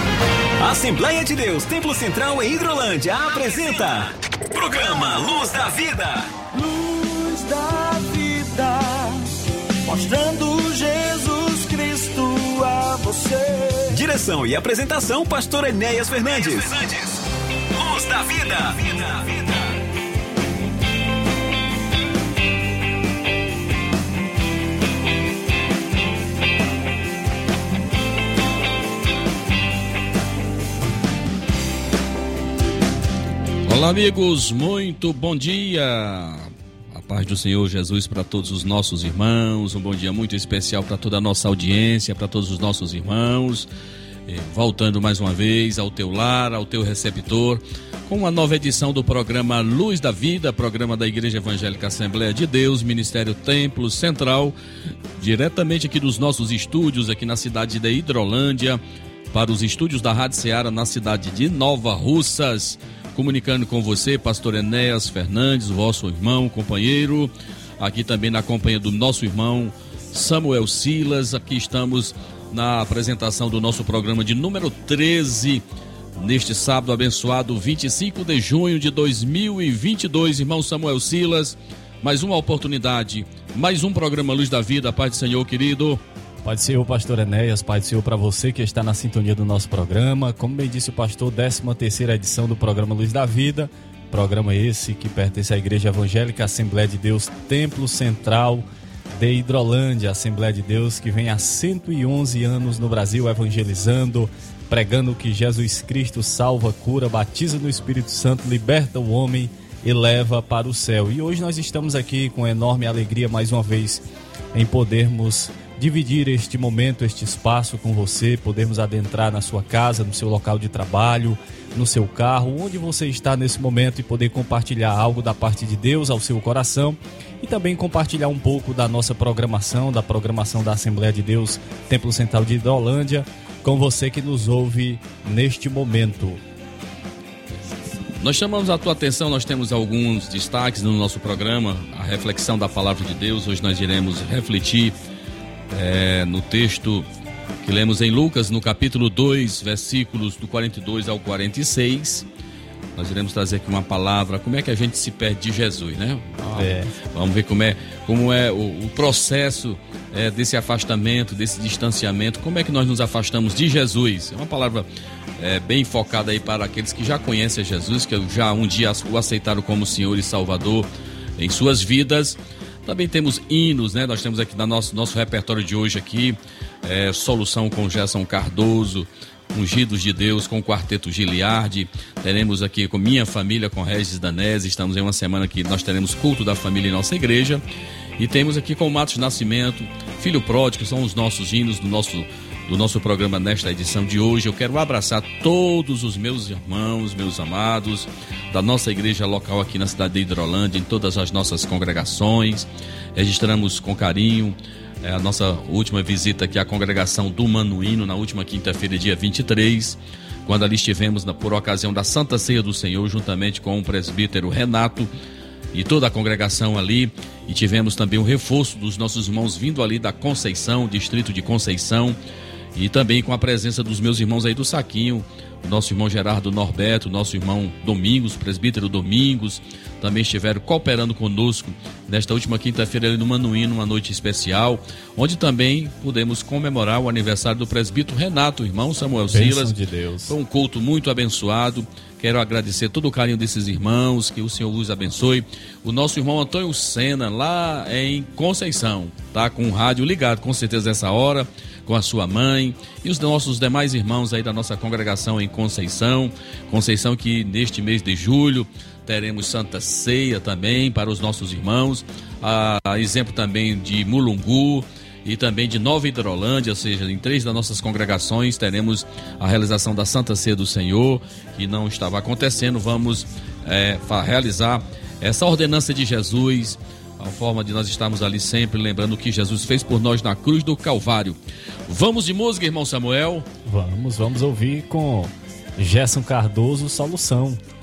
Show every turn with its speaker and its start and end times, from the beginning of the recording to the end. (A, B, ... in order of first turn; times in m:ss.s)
0:00.6-0:06.3 A
0:06.5-0:09.3 B
0:09.8-0:14.1 B
0:13.9-0:17.2 A
0:17.8-0:19.7 A
0:33.7-0:43.7 C
0:44.3-0:54.6 C
0:55.2-0:58.8 C
0:59.3-1:15.6 C
1:16.2-1:26.0 C
1:26.4-2:16.4 D
2:18.2-2:25.0 C
2:25.7-2:27.1 C
2:27.6-2:32.3 C
2:33.0-2:44.9 C
2:36.5-2:36.9 D
2:45.4-2:50.9 C
2:51.4-3:07.6 C
3:08.2-3:35.1 C
3:35.7-3:42.2 C
3:42.8-3:59.8 C
3:59.3-4:00.4 D
4:00.3-4:41.4 C
4:41.9-4:43.5 C
4:43.6-4:47.6 D